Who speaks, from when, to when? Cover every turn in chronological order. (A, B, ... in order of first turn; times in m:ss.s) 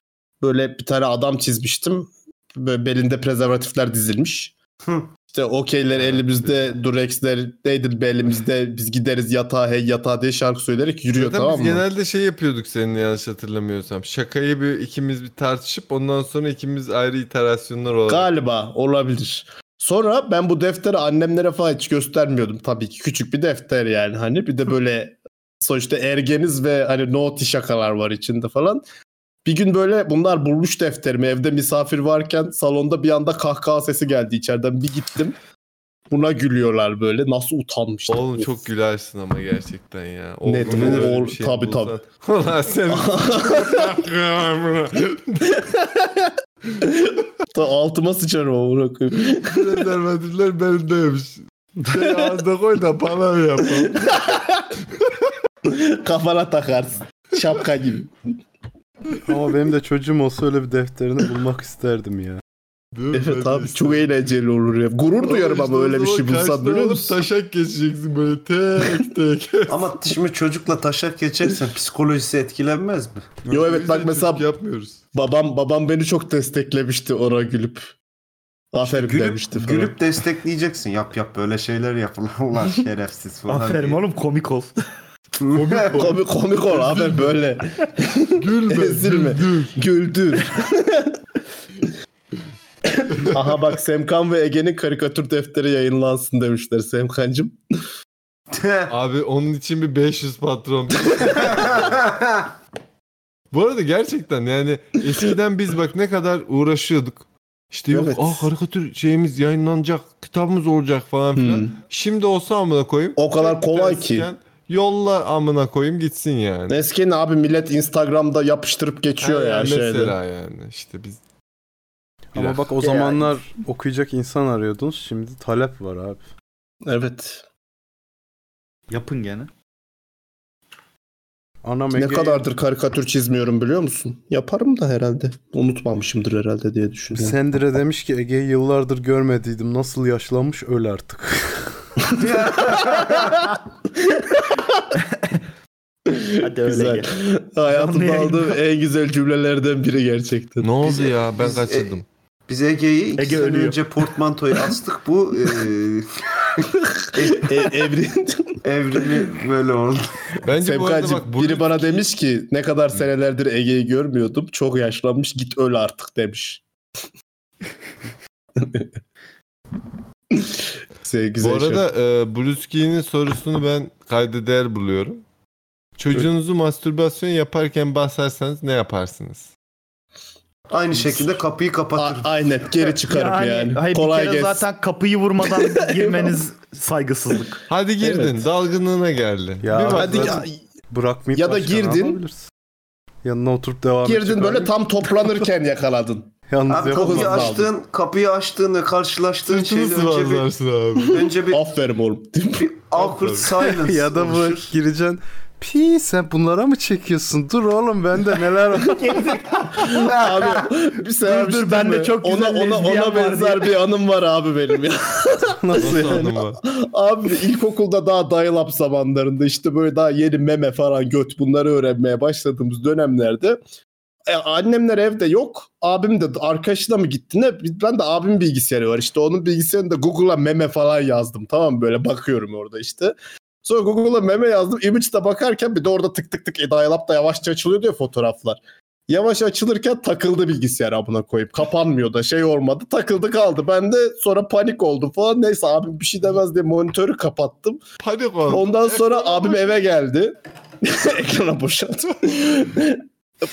0:00.4-0:04.5 A
0:04.8-0:05.1 B
0:05.3-0:11.8 A
0:05.9-0:06.6 C
0:11.1-0:18.3 C
0:18.1-0:28.8 A
0:29.4-0:35.4 A
0:36.1-0:38.6 A
0:38.1-0:45.7 C
0:40.4-0:41.9 A
0:42.9-0:44.0 A
0:45.6-0:46.3 A
0:46.8-0:49.9 A
0:49.2-0:54.2 C
0:53.7-0:54.7 A
0:55.6-0:58.1 A
0:59.2-1:02.4 D
1:02.9-1:04.1 C
1:03.1-1:07.2 A
1:05.2-1:09.9 C
1:09.7-1:13.3 B
1:13.4-1:15.0 C
1:13.5-1:14.4 A
1:15.1-1:17.9 A
1:18.7-1:20.0 A
1:18.8-1:24.0 B
1:23.5-1:24.8 E
1:25.4-1:25.9 B
1:25.5-1:27.4 C
1:25.9-1:31.1 A
1:28.4-1:29.7 C
1:33.0-1:37.6 A
1:38.5-1:38.9 B
1:38.9-1:42.0 C
1:41.3-1:42.5 B
1:43.5-1:56.8 C
1:47.9-1:48.5 A
1:51.4-1:51.7 A
1:53.2-1:54.3 A
1:56.7-2:00.1 A
1:59.2-2:01.2 C
2:02.3-2:06.3 D
2:02.3-2:02.7 C
2:02.8-2:03.2 E
2:06.8-2:07.4 A
2:08.9-2:09.5 E
2:11.6-2:12.4 D
2:11.9-2:17.4 A
2:17.1-2:21.8 D
2:22.2-2:23.4 B
2:22.2-2:23.4 A
2:24.1-2:24.8 A
2:25.1-2:25.4 E
2:26.1-2:31.0 A
2:26.4-2:27.1 E
2:27.7-2:28.6 E
2:30.6-2:32.0 C
2:31.0-2:36.1 B
2:33.2-2:33.8 E
2:37.0-2:39.2 A
2:37.2-2:37.7 B
2:38.6-2:40.1 B
2:40.4-2:42.0 C
2:40.5-2:46.6 A
2:48.6-2:48.9 A
2:50.3-2:51.8 A
2:51.4-2:55.2 C
2:56.0-2:59.5 C
3:00.7-3:02.3 B
3:01.0-3:01.4 A
3:02.0-3:04.6 A
3:03.0-3:07.6 E
3:05.9-3:06.4 A
3:07.7-3:10.4 C
3:08.0-3:08.4 A
3:09.6-3:12.5 D
3:09.9-3:10.6 A
3:11.3-3:12.2 A
3:13.2-3:15.4 D
3:14.0-3:17.7 A
3:16.5-3:17.6 D
3:16.7-3:20.5 B
3:19.4-3:21.2 C
3:21.1-3:21.6 B
3:21.5-3:22.7 A
3:22.6-3:24.7 B
3:22.9-3:23.5 C
3:23.6-3:29.2 D
3:28.9-3:30.6 E
3:29.7-3:43.6 A
3:31.2-3:33.8 E
3:35.6-3:36.3 D
3:35.8-3:36.6 C
3:44.3-4:07.8 A
4:08.0-4:09.8 C
4:08.5-4:13.0 A